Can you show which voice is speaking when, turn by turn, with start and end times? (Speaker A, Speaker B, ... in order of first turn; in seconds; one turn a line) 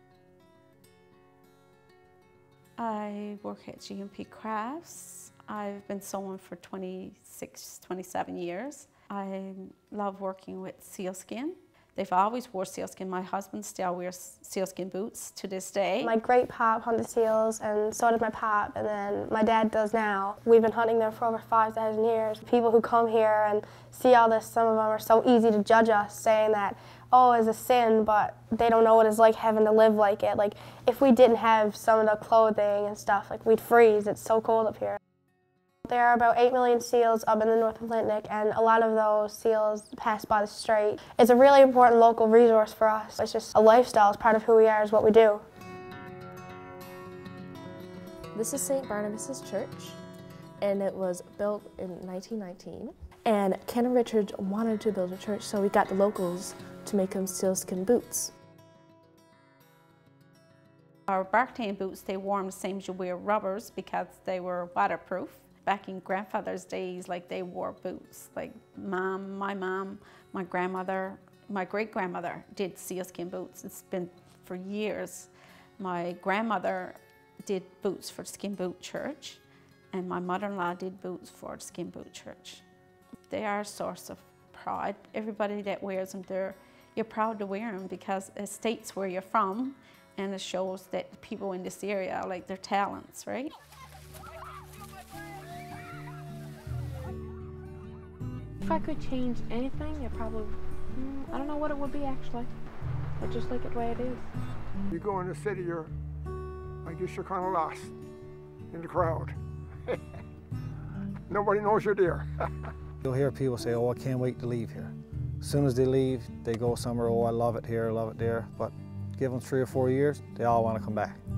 Speaker A: 2.8-16.2
Speaker B: 16.0-35.0
Speaker B: 35.9-45.4
Speaker C: 48.4-50.0
Speaker C: 50.6-58.3
Speaker A: 61.1-79.4
Speaker A: 79.9-82.6
Speaker A: 83.3-93.5
Speaker D: 98.6-102.5
Speaker D: 103.2-104.3
Speaker E: 104.9-105.9
Speaker E: 106.8-107.9
Speaker E: 108.7-109.4
Speaker E: 111.3-112.3
Speaker F: 113.0-121.2